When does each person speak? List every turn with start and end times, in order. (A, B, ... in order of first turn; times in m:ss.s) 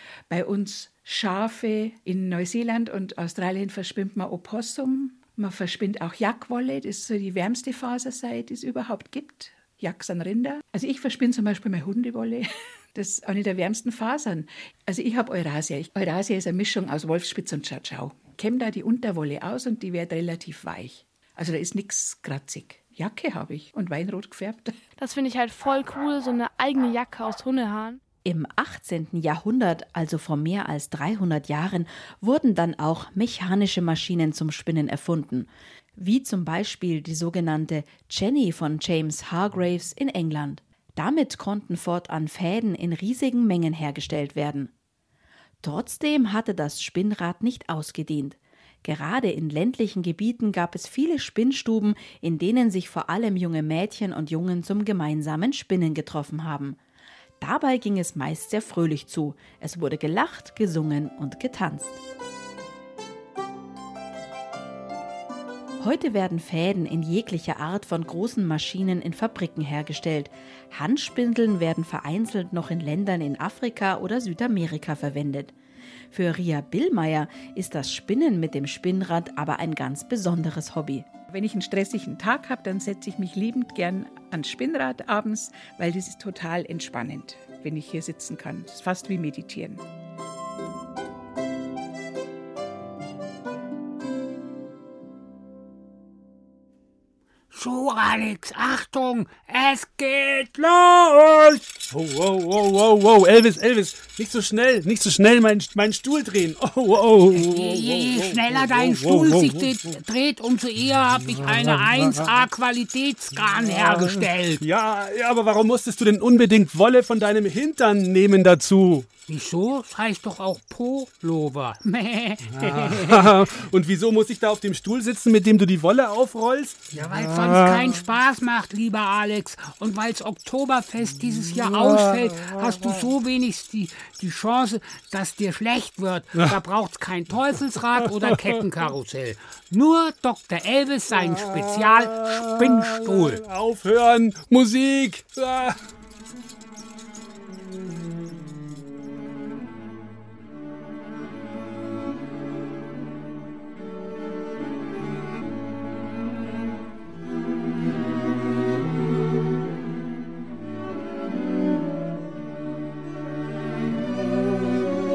0:00.3-0:24.8 A
0:25.0-0:28.0 B
0:28.2-0:44.7 C
0:45.6-0:56.8 C
0:57.4-1:02.0 C
1:05.8-1:15.5 C
1:16.1-1:21.1 C
1:21.3-1:29.8 A
1:37.5-1:41.7 D
1:41.9-1:49.8 E
1:47.3-1:54.6 D
1:51.3-1:52.3 E
1:53.7-1:59.1 E
1:59.3-2:03.5 D
2:02.5-2:08.0 E
2:06.9-2:23.4 D
2:11.8-2:12.8 E
2:21.1-2:25.8 E